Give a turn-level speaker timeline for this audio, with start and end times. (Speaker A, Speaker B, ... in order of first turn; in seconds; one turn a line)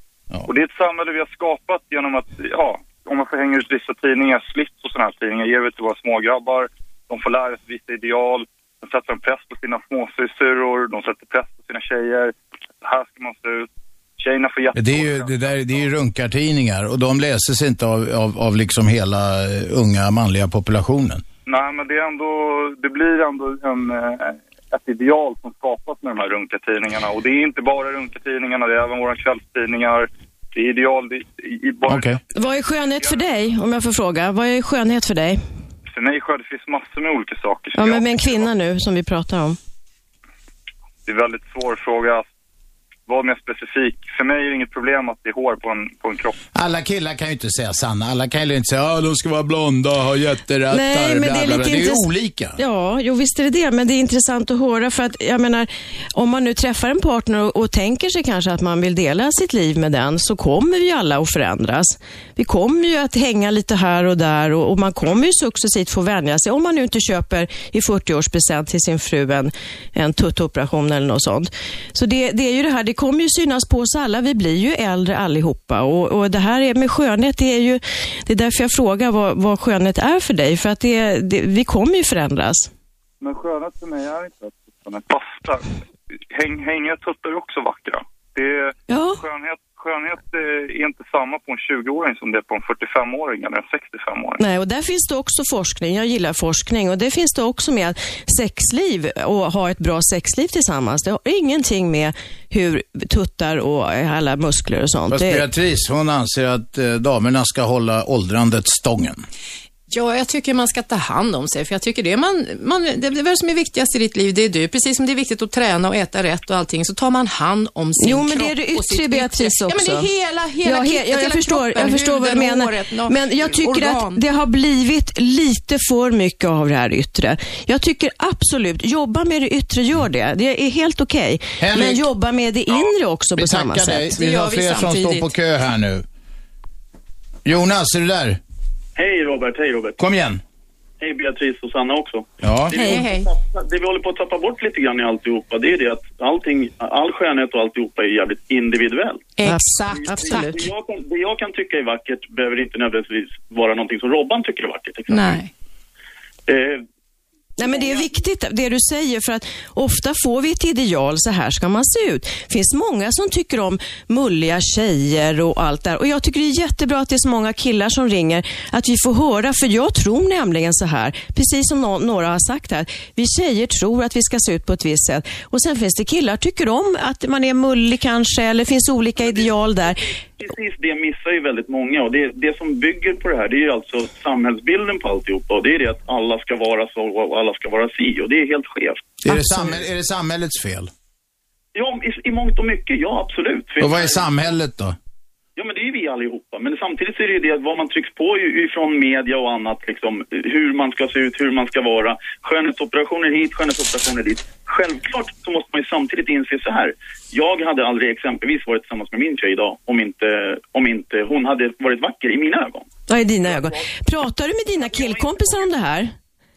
Speaker A: 0.5-13.7
Speaker A: 14.2-15.9
Speaker B: 14.7-21.2
Speaker A: 21.4-32.2
Speaker B: 31.9-32.2
Speaker C: 32.3-35.4
Speaker A: 33.0-33.2
Speaker A: 35.9-38.5
Speaker C: 37.7-39.6
Speaker A: 41.0-42.3
Speaker A: 43.1-46.3
Speaker B: 46.5-52.6
Speaker C: 50.7-52.0
Speaker C: 52.6-82.7
Speaker A: 83.2-85.7
Speaker A: 86.3-94.4
Speaker C: 88.9-89.2
Speaker C: 94.4-105.4
Speaker B: 105.1-109.2
Speaker D: 109.9-124.2
Speaker C: 118.0-120.1
Speaker C: 120.6-134.1
Speaker B: 131.6-132.1
Speaker B: 133.4-136.0
Speaker D: 134.2-135.3
Speaker B: 137.4-138.4
Speaker E: 138.9-140.0
Speaker B: 140.0-140.4
Speaker E: 141.0-149.3
Speaker B: 142.4-142.9
Speaker D: 142.7-143.3
Speaker D: 149.4-150.6
Speaker C: 149.4-150.7
Speaker E: 150.0-155.4
Speaker D: 155.1-155.5
Speaker E: 156.5-156.8
Speaker C: 157.6-180.0
Speaker E: 157.6-158.1
Speaker E: 180.4-189.1
Speaker B: 189.2-190.9
Speaker C: 189.3-189.8
Speaker E: 191.7-194.3
Speaker B: 193.8-194.9
Speaker E: 195.6-212.9
Speaker C: 213.1-216.1
Speaker E: 213.4-213.8
Speaker E: 214.8-215.7